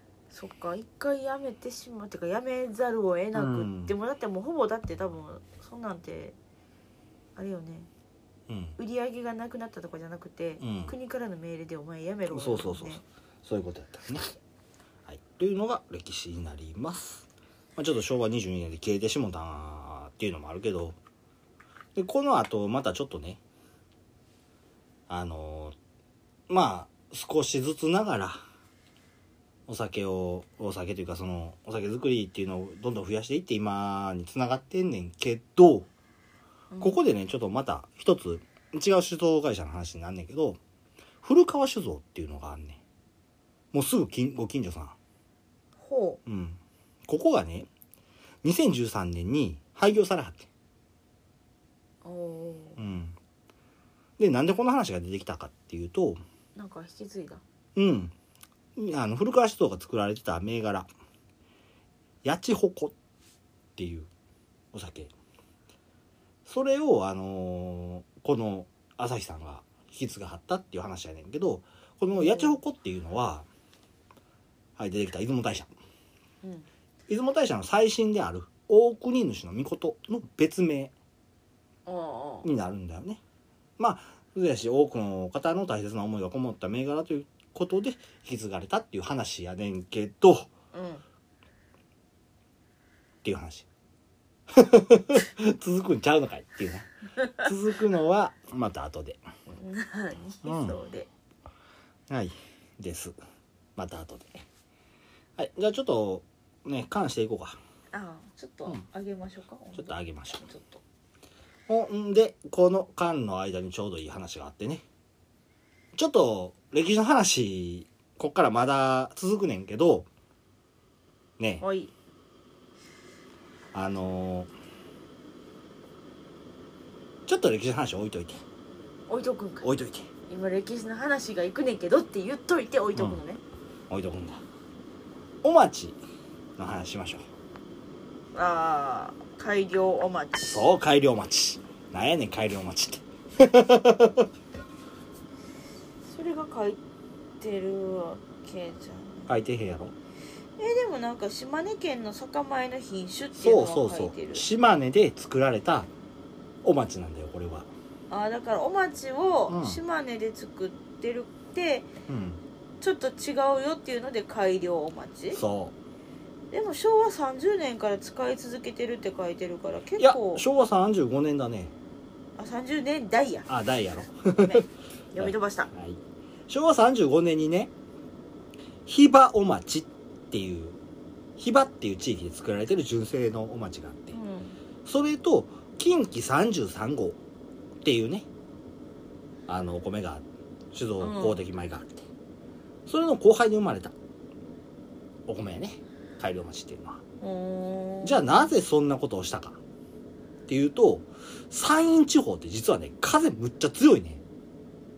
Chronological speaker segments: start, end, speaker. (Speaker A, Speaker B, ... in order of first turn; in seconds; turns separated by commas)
Speaker A: 0.3-6.3, Speaker B: 3.3-3.9, Speaker A: 7.3-7.9, Speaker B: 8.5-8.8, Speaker A: 8.8-13.0, Speaker B: 10.6-10.9, Speaker B: 12.3-14.2, Speaker B: 15.1-21.0, Speaker B: 21.9-23.4, Speaker B: 25.1-25.7, Speaker B: 26.5-28.4, Speaker B: 29.7-35.9, Speaker A: 36.7-37.0, Speaker B: 36.8-40.6, Speaker B: 41.2-42.8, Speaker B: 43.7-44.9, Speaker A: 45.8-46.2, Speaker B: 46.2-47.7, Speaker B: 48.4-50.5, Speaker A: 52.0-52.8, Speaker B: 52.8-53.1, Speaker B: 54.2-56.2, Speaker A: 56.5-57.4, Speaker B: 57.8-58.1, Speaker B: 58.8-60.9, Speaker B: 62.2-62.9, Speaker B: 63.8-64.1, Speaker B: 64.7-65.1, Speaker B: 66.5-73.5, Speaker A: 72.1-72.6, Speaker B: 74.8-75.7, Speaker A: 76.4-76.7, Speaker B: 77.1-80.9, Speaker A: 81.8-82.5, Speaker B: 82.4-83.2, Speaker B: 83.8-90.5, Speaker A: 90.7-91.0, Speaker B: 93.2-93.7, Speaker B: 94.5-99.2, Speaker A: 99.5-101.1, Speaker B: 100.4-100.8, Speaker B: 102.1-103.2, Speaker B: 103.8-104.4, Speaker B: 105.4-107.6, Speaker A: 107.9-110.8, Speaker B: 109.7-110.4, Speaker B: 111.7-114.8, Speaker B: 116.0-120.1, Speaker B: 121.4-121.6, Speaker A: 121.6-121.9, Speaker B: 123.7-124.5, Speaker B: 127.3-128.4, Speaker A: 129.1-129.7, Speaker B: 129.6-130.1, Speaker A: 130.3-133.4, Speaker B: 132.9-133.2, Speaker B: 133.9-134.4, Speaker B: 135.4-136.0, Speaker B: 136.6-137.2, Speaker A: 138.3-140.7, Speaker B: 140.5-144.3, Speaker A: 146.0-146.8, Speaker A: 147.4-149.3, Speaker B: 149.3-149.9, Speaker A: 150.6-154.4, Speaker B: 153.3-155.9, Speaker B: 156.6-157.7, Speaker A: 158.1-161.9, Speaker B: 159.5-159.8, Speaker B: 162.1-162.4, Speaker A: 162.8-165.4, Speaker B: 165.3-165.7, Speaker A: 166.5-170.4, Speaker B: 170.0-171.7, Speaker A: 172.4-173.5, Speaker B: 173.5-174.7, Speaker A: 174.4-175.7, Speaker B: 175.2-177.7, Speaker B: 178.8-180.8, Speaker B: 181.4-184.2, Speaker A: 184.1-184.6, Speaker B: 184.8-187.2, Speaker B: 187.8-188.2, Speaker B: 189.5-192.1, Speaker A: 191.0-191.4, Speaker B: 192.9-193.9, Speaker B: 195.3-197.0, Speaker A: 197.2-198.5, Speaker B: 198.0-199.6, Speaker B: 200.5-204.2